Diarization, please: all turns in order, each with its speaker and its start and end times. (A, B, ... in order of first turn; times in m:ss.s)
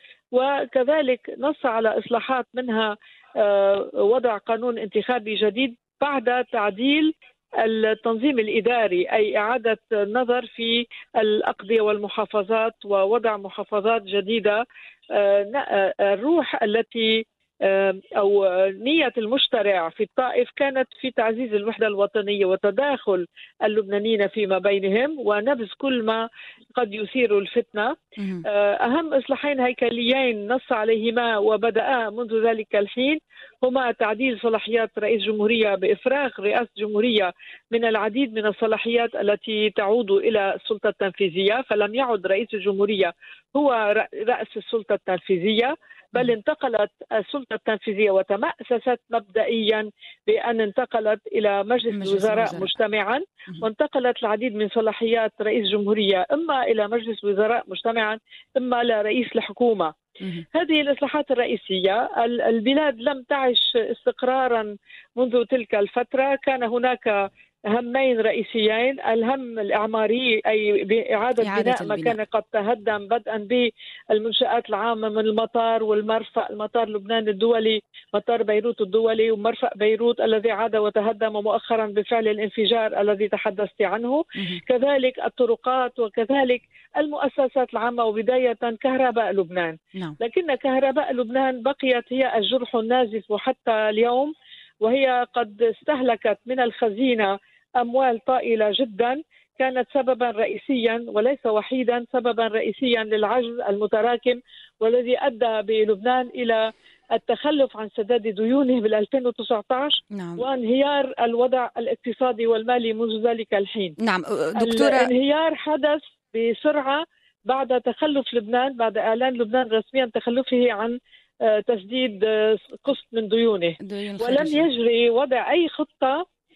0:00.3-0:59.9 A
0:28.2-0:28.4 B
0:51.9-0:52.8 B
1:00.5-1:07.2 A
1:07.7-1:46.6 A
1:11.4-1:12.2 B
1:47.1-1:53.9 A
1:50.1-1:50.4 B
1:54.0-1:55.1 B
1:54.6-2:06.2 A
2:03.8-2:04.7 B